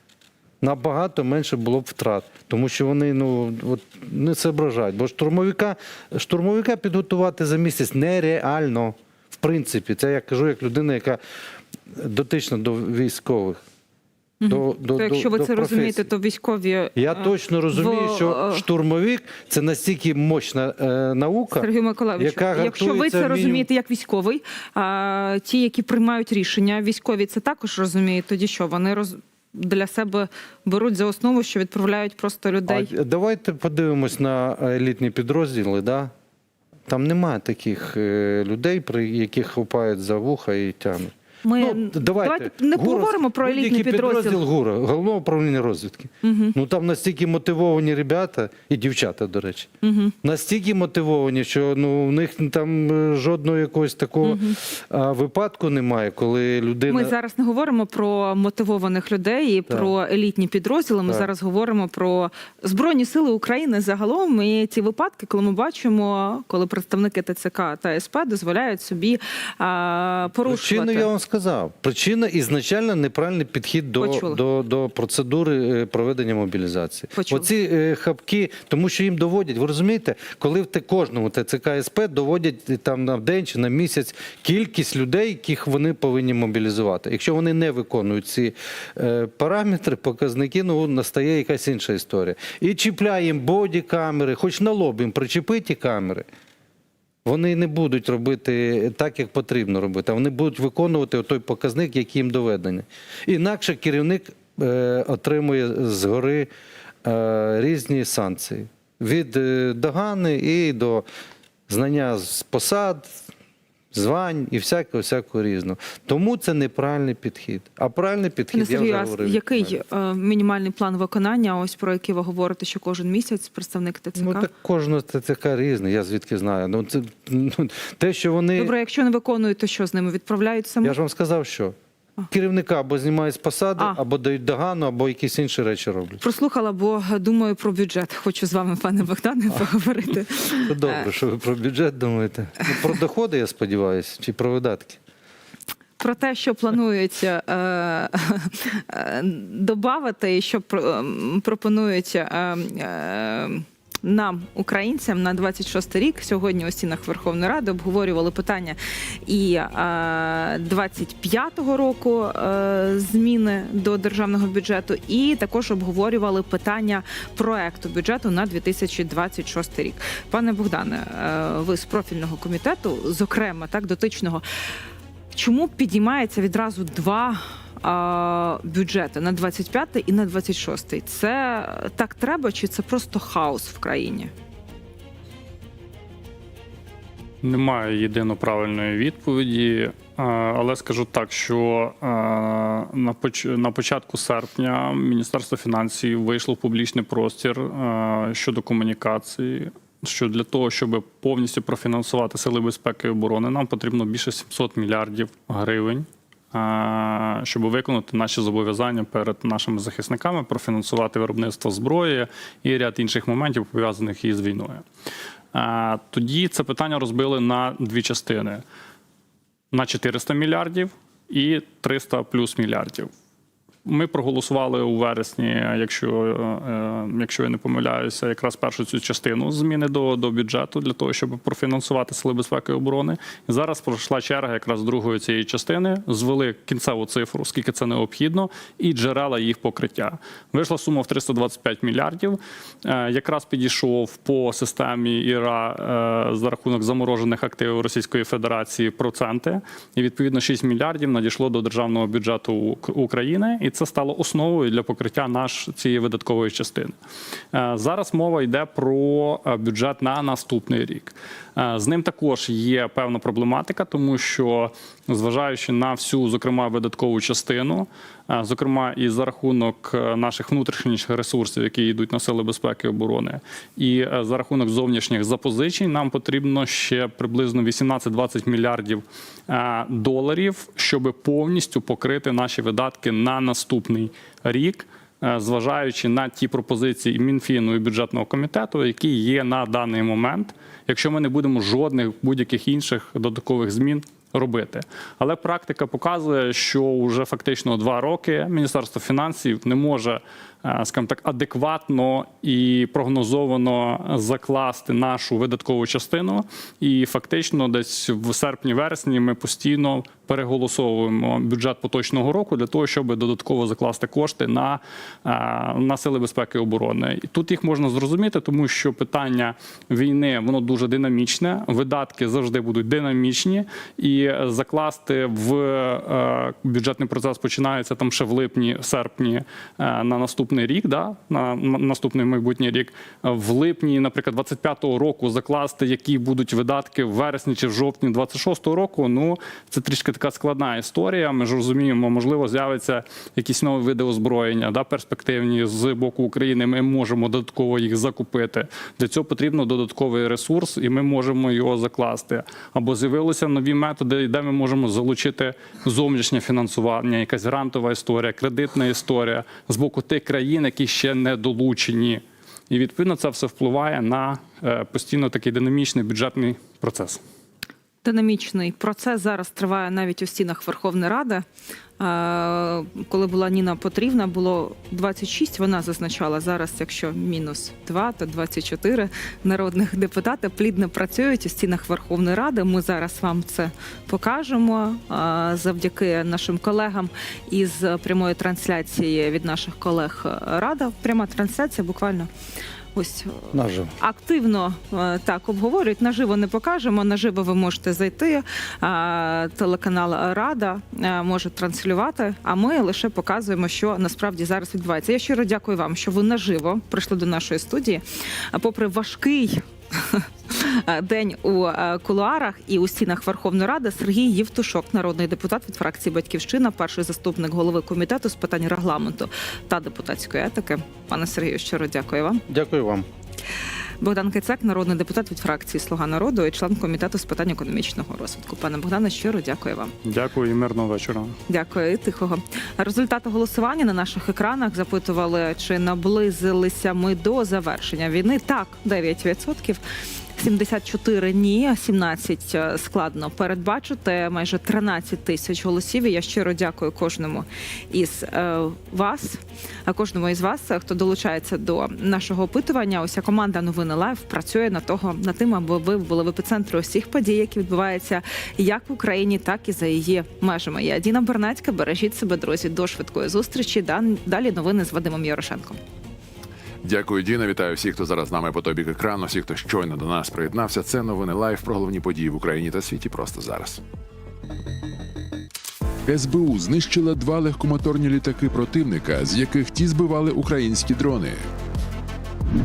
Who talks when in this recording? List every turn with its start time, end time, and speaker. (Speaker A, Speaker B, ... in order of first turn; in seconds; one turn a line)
Speaker A: 0.6-11.2
Speaker A: 11.9-13.6
Speaker B: 14.4-18.6
Speaker A: 14.5-16.1
Speaker A: 16.9-23.6
Speaker B: 21.5-32.9
Speaker A: 32.7-36.1
Speaker A: 36.9-49.7
Speaker B: 41.4-44.4
Speaker B: 46.2-46.5
Speaker B: 49.8-50.1
Speaker A: 50.2-57.1
Speaker B: 54.2-54.6
Speaker B: 56.9-71.1
Speaker A: 70.4-96.2
Speaker B: 74.0-74.4
Speaker B: 77.1-77.5
Speaker A: 97.2-106.5
Speaker A: 107.0-111.0
Speaker A: 111.7-113.2
Speaker A: 113.9-119.8
Speaker B: 118.5-124.5
Speaker A: 124.2-128.7
Speaker B: 128.6-131.0
Speaker A: 130.8-131.8
Speaker A: 132.3-136.2
Speaker B: 136.2-141.0
Speaker A: 140.6-145.0
Speaker B: 146.0-174.4
Speaker B: 175.3-184.3
Speaker C: 187.4-214.8
Speaker C: 215.5-218.6
Speaker C: 219.7-223.1
Speaker C: 223.8-256.9
Speaker C: 257.5-367.2
Speaker B: 368.0-371.4
Speaker B: 372.0-392.3
Speaker B: 392.9-422.4
Speaker A: 393.5-393.9
Speaker A: 422.5-423.1
Speaker B: 424.0-429.9
Speaker C: 430.0-431.4
Speaker B: 431.5-439.8
Speaker B: 440.4-465.8
Speaker D: 466.8-473.8
Speaker D: 476.0-481.4